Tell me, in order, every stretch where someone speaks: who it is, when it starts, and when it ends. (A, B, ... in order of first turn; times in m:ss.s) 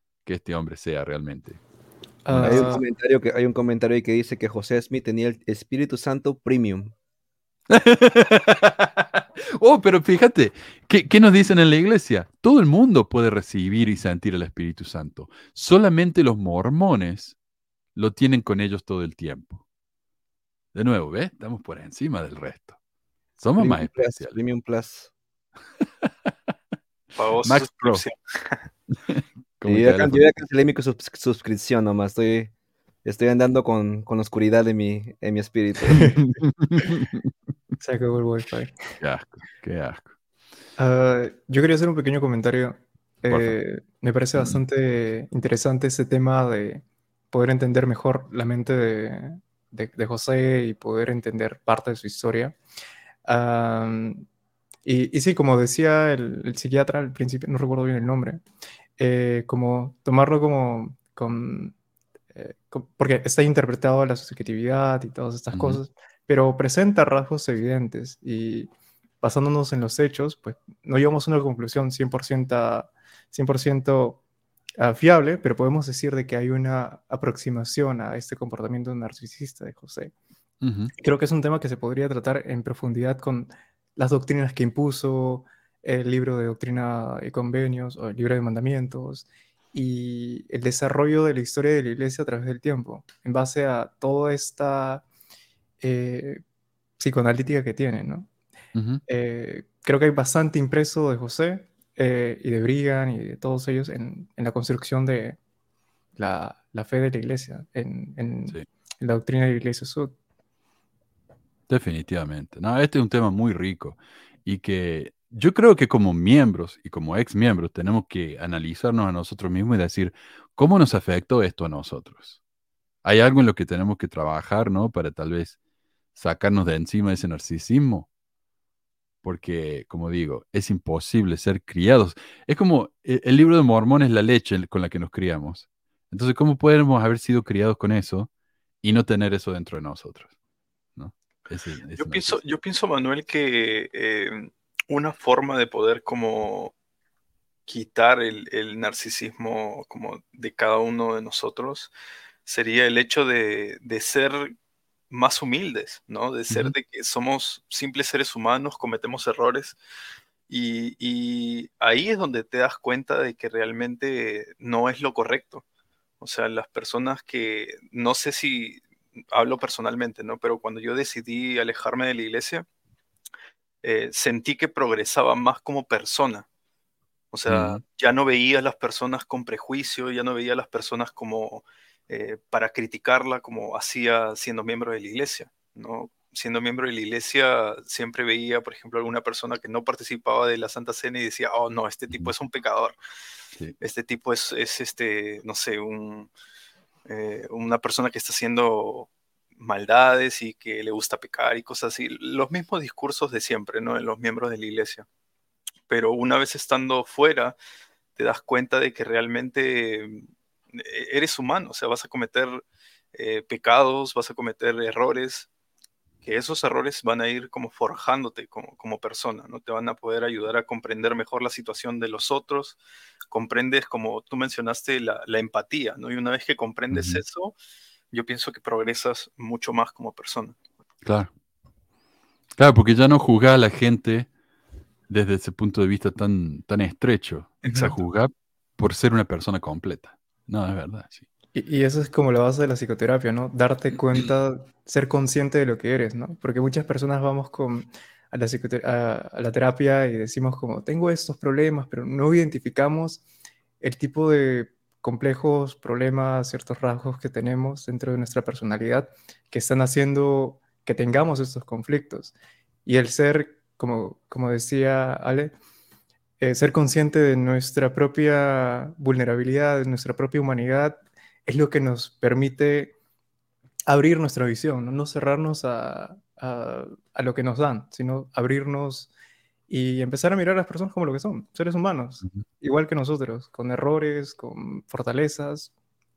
0:00.2-0:01.6 A
0:02.2-0:02.8 B
0:02.3-0:02.8 A
0:02.4-0:06.9 C
0:07.7-0:17.4 A
0:18.0-0:19.6 A
0:20.7-0:22.8 A
0:23.4-0:24.3 A
0:23.6-0:25.1 C
0:27.1-0:28.6 D
0:27.4-0:28.0 A
0:29.1-0:30.3 A
0:29.6-0:32.5 C
0:33.0-0:36.1 C
0:36.1-0:37.2 A
0:37.8-0:38.8 B
0:39.0-0:40.1 A
0:40.8-0:52.6 B
0:43.3-0:43.6 A
0:44.4-0:44.6 A
0:53.2-0:54.3 B
0:54.8-0:58.4 B
0:59.0-1:01.7 B
1:02.3-1:08.7 B
1:05.5-1:05.8 A
1:09.2-1:14.2 B
1:14.8-1:20.1 B
1:20.6-1:20.9 A
1:21.0-1:35.0 B
1:35.8-1:36.4 B
1:37.0-1:38.3 B
1:38.7-1:39.0 A
1:39.1-1:45.4 B
1:46.2-1:50.1 B
1:51.7-2:02.4 A
2:03.0-2:05.6 A
2:06.1-2:08.1 A
2:09.2-2:18.3 A
2:18.8-2:20.3 A
2:21.0-2:22.4 A
2:22.0-2:26.7 D
2:27.7-2:31.9 D
2:32.4-2:34.5 D
2:35.1-2:39.8 D
2:40.5-2:45.6 D
2:46.2-2:52.6 D
2:53.8-2:56.4 D
2:57.3-3:13.0 D
2:57.5-2:57.8 A
3:13.8-3:16.3 D
3:17.0-3:25.0 D
3:25.9-3:27.6 D
3:28.2-3:32.6 D
3:33.1-3:35.5 D
3:36.2-3:42.8 D
3:43.3-3:47.5 D
3:46.9-3:47.2 A
3:48.1-3:50.6 D
3:51.0-3:51.3 A
3:52.6-3:54.3 A
3:55.1-4:01.2 A
4:01.5-4:13.2 B
4:13.8-4:22.3 B
4:22.8-4:25.5 B
4:26.4-4:33.0 B
4:33.9-4:39.1 B
4:39.7-4:45.7 B